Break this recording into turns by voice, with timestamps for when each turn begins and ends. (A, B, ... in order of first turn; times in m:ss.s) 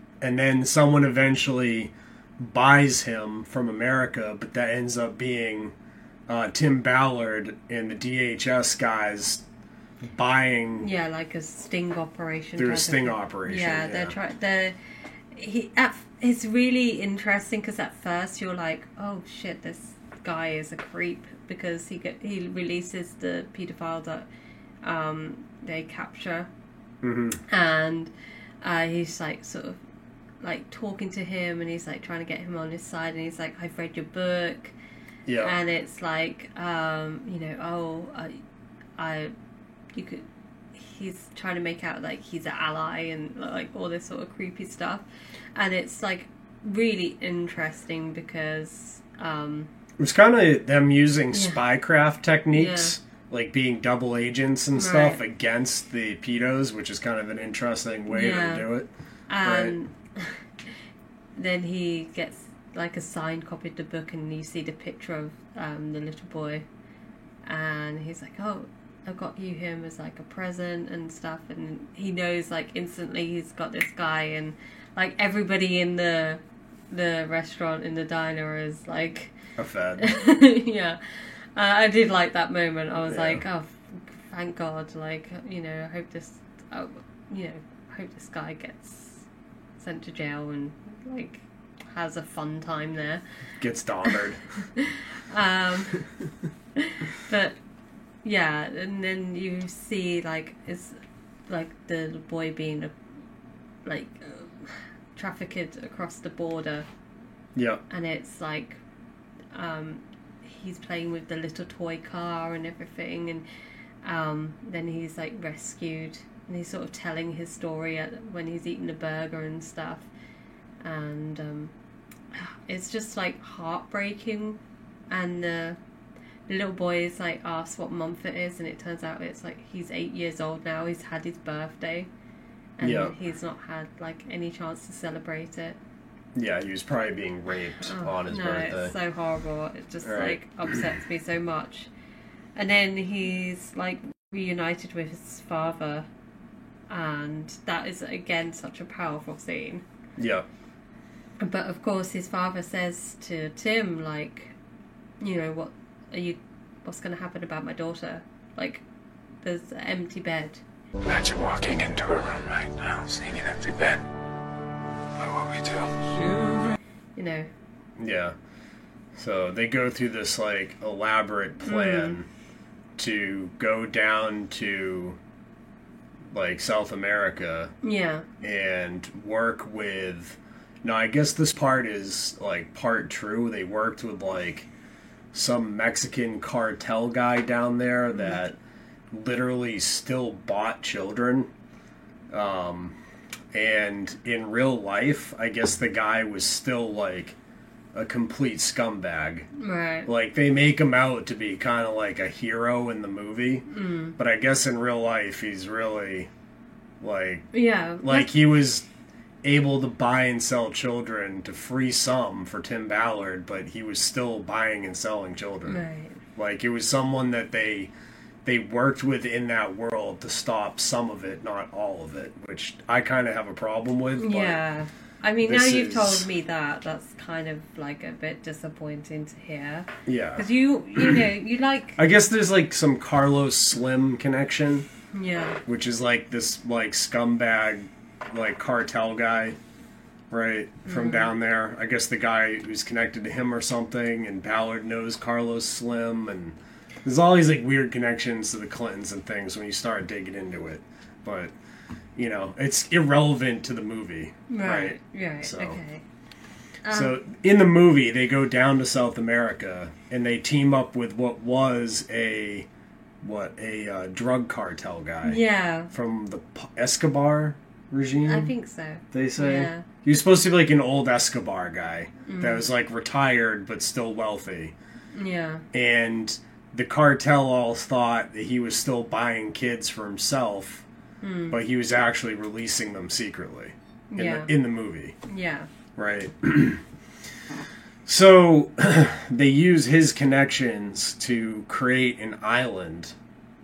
0:00.2-0:05.7 A
0:06.3-0:09.4 A
0:10.0-0:10.9 A
0:10.8-0:14.8 B
0:12.6-0:14.2 A
0:15.3-0:24.2 B
0:24.8-0:26.5 B
0:27.0-0:27.4 A
0:27.5-0:29.8 B
0:30.4-0:34.7 B
0:35.2-0:35.6 A
0:35.4-0:38.4 B
0:39.0-0:39.3 B
0:39.9-0:45.0 B
0:45.6-0:49.7 B
0:50.0-0:58.9 A
0:51.3-0:51.6 B
0:52.5-0:52.9 B
0:54.7-0:55.2 B
0:58.1-0:58.7 B
0:59.3-1:00.7 B
0:59.4-0:59.7 A
1:01.4-1:06.6 B
1:07.4-1:19.3 B
1:19.6-1:20.1 A
1:20.0-1:29.2 B
1:23.1-1:23.4 A
1:29.8-1:33.2 B
1:33.6-1:34.4 A
1:34.1-1:36.0 B
1:36.8-1:37.6 B
1:38.2-1:41.0 B
1:41.5-1:42.9 B
1:43.8-1:46.9 B
1:47.5-1:47.8 A
1:47.9-1:48.8 B
1:49.5-1:53.4 B
1:54.0-2:00.1 B
2:00.8-2:01.7 B
2:02.3-2:04.6 B
2:05.1-2:05.8 B
2:06.5-2:12.1 B
2:12.8-2:15.8 B
2:12.8-2:13.1 A
2:16.3-2:18.9 A
2:17.8-2:21.9 B
2:20.0-2:20.4 A
2:22.6-2:26.1 B
2:26.9-2:29.8 B
2:30.2-2:30.4 A
2:31.4-2:34.5 B
2:35.2-2:38.8 B
2:39.4-2:40.6 B
2:41.0-2:44.0 C
2:45.2-2:46.0 C
2:47.2-2:47.5 B
2:48.0-2:48.4 A
2:49.1-2:52.3 A
2:51.6-2:52.2 B
2:53.0-2:55.2 A
2:56.3-2:57.7 A
2:57.8-2:58.2 B
2:58.4-3:04.7 A
3:05.3-3:08.6 A
3:08.1-3:08.4 B
3:09.1-3:11.5 A
3:12.3-3:13.0 A
3:13.5-3:17.4 A
3:17.9-3:19.5 A
3:19.6-3:20.1 B
3:20.0-3:26.3 A
3:23.7-3:24.2 B
3:27.0-3:28.8 A
3:27.5-3:28.3 B
3:29.4-3:35.8 A
3:35.6-3:36.2 B
3:36.4-3:37.9 A
3:38.4-3:44.6 A
3:44.2-3:52.0 B
3:45.4-3:46.3 A
3:50.0-3:51.2 A
3:52.0-3:54.8 A
3:55.1-3:55.6 B
3:55.6-3:59.6 A
4:00.3-4:11.5 A
4:00.8-4:01.3 B
4:12.2-4:15.8 A
4:14.5-4:16.0 B
4:16.8-4:17.1 B
4:16.9-4:22.7 A
4:23.2-4:28.5 A
4:25.2-4:25.9 B
4:28.2-4:29.8 B
4:29.1-4:34.7 A
4:32.2-4:32.7 B
4:35.1-4:35.6 B
4:35.7-4:40.8 A
4:41.2-4:41.6 B
4:41.5-4:45.1 A
4:44.1-4:44.5 B
4:45.2-4:45.7 B
4:46.0-4:46.8 A
4:48.0-4:53.1 A